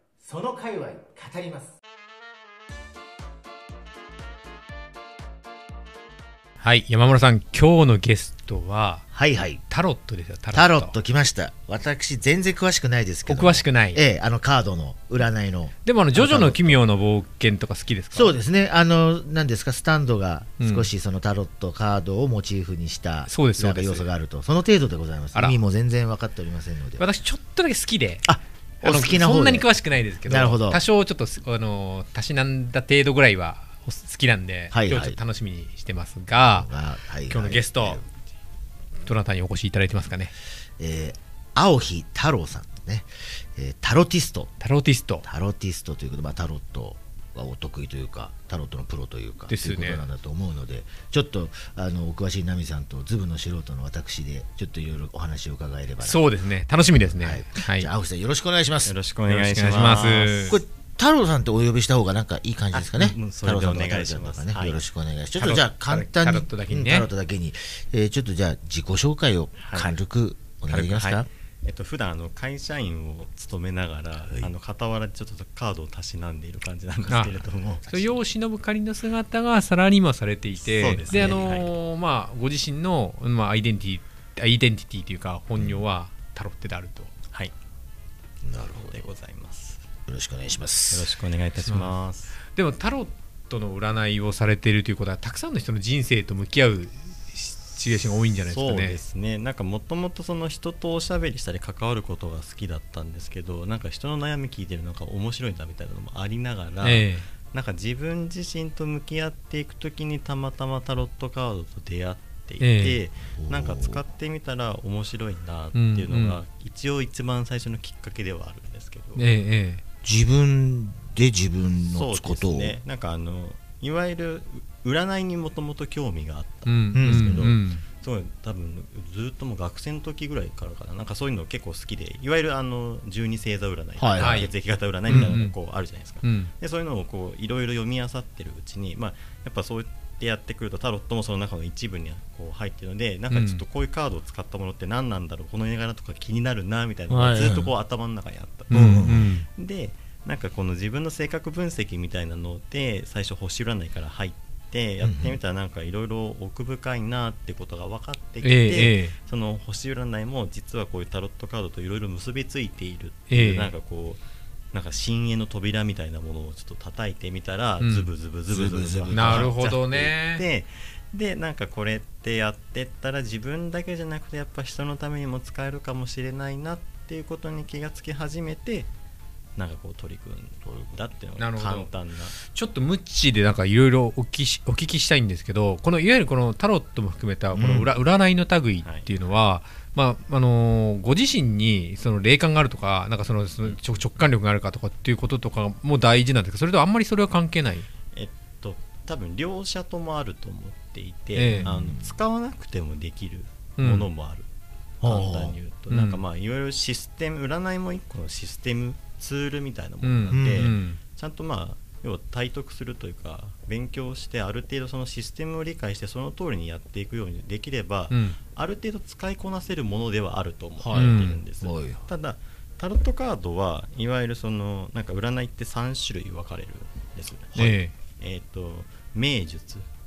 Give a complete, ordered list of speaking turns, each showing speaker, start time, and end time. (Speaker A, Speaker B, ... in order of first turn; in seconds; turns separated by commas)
Speaker A: 0.2-1.8, Speaker B: 6.6-9.1, Speaker A: 9.1-9.6, Speaker B: 9.6-10.9, Speaker A: 10.5-16.8, Speaker B: 13.3-14.0, Speaker B: 15.8-18.3, Speaker A: 18.1-27.0, Speaker B: 20.6-20.9, Speaker B: 23.3-24.1, Speaker B: 27.0-28.3, Speaker A: 28.2-29.7, Speaker B: 28.8-36.7, Speaker A: 30.2-30.8, Speaker A: 34.7-35.2, Speaker A: 36.4-38.1, Speaker B: 37.3-38.0, Speaker B: 39.0-40.3, Speaker A: 40.8-44.5, Speaker B: 44.6-45.2, Speaker A: 45.2-56.3, Speaker B: 49.5-50.0, Speaker B: 56.0-57.9, Speaker A: 57.1-59.0, Speaker C: 58.8-60.6, Speaker B: 59.2-60.6, Speaker A: 60.5-71.3, Speaker C: 62.7-64.8, Speaker B: 65.3-67.1, Speaker C: 69.6-70.0, Speaker C: 70.7-78.2, Speaker B: 77.1-87.1, Speaker C: 80.6-81.7, Speaker A: 81.1-81.4, Speaker A: 85.5-85.9, Speaker A: 88.4-89.1, Speaker C: 88.6-89.8, Speaker A: 90.1-91.2, Speaker C: 90.9-92.4, Speaker B: 91.6-91.9, Speaker B: 92.5-99.0, Speaker C: 98.4-119.3, Speaker B: 106.8-107.3, Speaker B: 112.6-113.0, Speaker A: 113.4-114.0, Speaker B: 115.7-116.4, Speaker B: 119.2-119.8, Speaker A: 120.0-122.8, Speaker C: 121.8-164.2, Speaker B: 126.7-127.8, Speaker A: 126.9-127.5, Speaker A: 134.0-134.5, Speaker B: 134.2-134.5, Speaker B: 135.1-135.5, Speaker B: 136.2-136.5, Speaker B: 143.3-143.6, Speaker A: 147.1-147.7, Speaker B: 148.7-149.5, Speaker A: 148.7-149.3, Speaker A: 155.0-155.4, Speaker B: 158.4-159.2, Speaker B: 163.3-163.7, Speaker C: 164.7-178.9, Speaker B: 167.8-168.1, Speaker A: 168.5-169.5, Speaker B: 169.1-170.5, Speaker C: 179.6-182.4, Speaker A: 180.7-181.0, Speaker B: 181.4-197.9, Speaker A: 187.5-187.9, Speaker C: 188.8-189.1, Speaker C: 198.1-204.5, Speaker B: 201.3-201.9, Speaker A: 201.6-202.2, Speaker B: 203.8-204.1, Speaker A: 205.0-205.6, Speaker C: 205.0-229.9, Speaker B: 205.9-206.2, Speaker B: 210.0-211.0, Speaker A: 210.3-210.7, Speaker B: 218.1-218.4, Speaker A: 220.8-222.1, Speaker B: 220.9-221.4, Speaker B: 227.6-227.9